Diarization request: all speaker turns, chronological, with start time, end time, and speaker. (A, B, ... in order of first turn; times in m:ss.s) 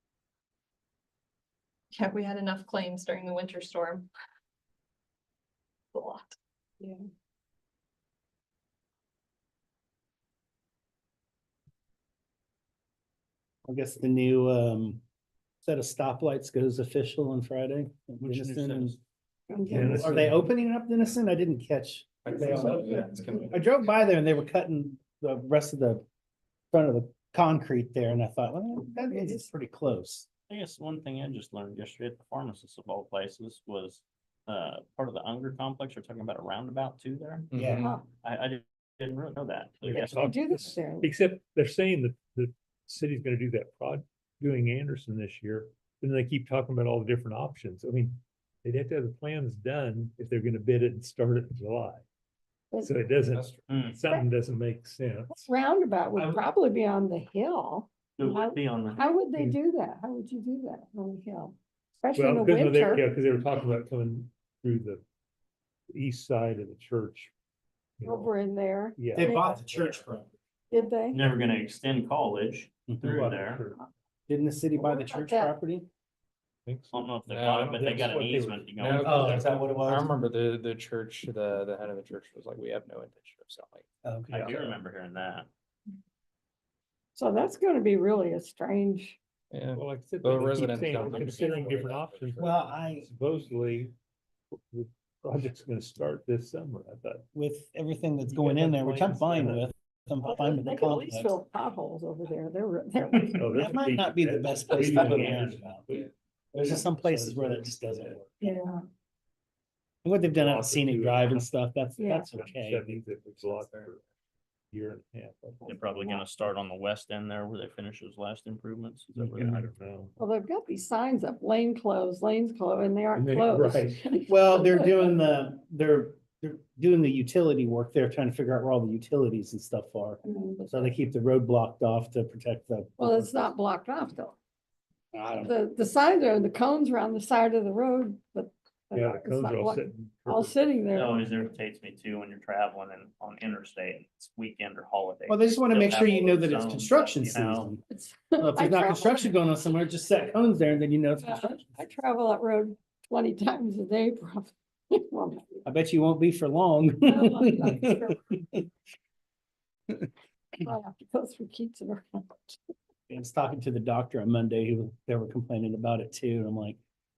0:01.9-0:04.1 A
0:05.9-0:06.3 A
0:13.6-0:15.0 B
0:15.6-0:19.0 B
0:18.2-0:19.0 C
0:19.5-0:20.0 D
0:19.7-0:20.4 E
0:19.7-0:26.0 B
0:22.3-0:23.6 F
0:26.7-0:30.3 B
0:29.0-0:29.5 D
0:30.5-0:40.3 C
0:37.5-0:37.8 F
0:37.5-0:37.9 B
0:39.8-0:52.0 E
0:40.0-0:41.1 D
0:52.8-0:55.4 E
0:53.7-0:54.0 C
0:55.3-1:03.0 D
0:58.2-0:59.2 C
1:02.2-1:05.0 E
1:05.9-1:07.3 E
1:08.0-1:08.3 E
1:08.0-1:09.6 D
1:09.0-1:09.5 E
1:09.1-1:10.3 B
1:10.7-1:11.3 D
1:11.1-1:13.6 C
1:13.0-1:13.8 E
1:14.3-1:15.8 B
1:14.8-1:15.6 D
1:16.7-1:17.0 E
1:16.9-1:19.5 C
1:17.2-1:18.0 F
1:17.7-1:18.7 E
1:18.8-1:23.8 F
1:19.0-1:20.1 B
1:24.0-1:24.5 B
1:24.3-1:25.5 C
1:24.3-1:24.7 E
1:27.1-1:29.2 D
1:29.5-1:32.5 F
1:29.7-1:33.9 E
1:32.4-1:33.1 B
1:34.7-1:37.2 E
1:37.3-1:41.4 B
1:38.3-1:39.7 E
1:40.2-1:43.4 D
1:43.3-1:48.3 E
1:43.4-1:45.8 B
1:46.5-1:48.2 B
1:48.4-1:48.8 D
1:50.0-1:52.9 B
1:50.3-1:51.4 E
1:52.0-1:52.4 D
1:52.3-1:54.1 E
1:54.7-1:56.2 E
1:55.6-1:59.7 C
1:59.2-2:00.1 E
2:00.2-2:04.9 D
2:03.1-2:04.0 E
2:04.3-2:13.5 B
2:10.2-2:10.9 D
2:13.0-2:14.4 D
2:15.1-2:15.5 B
2:15.4-2:21.3 D
2:18.9-2:20.6 E
2:20.9-2:27.7 C
2:25.3-2:27.8 B
2:27.9-2:29.3 D
2:28.4-2:31.7 B
2:31.2-2:35.6 D
2:35.6-2:38.6 B
2:37.0-2:38.2 D
2:40.6-2:42.6 D
2:43.1-2:46.8 B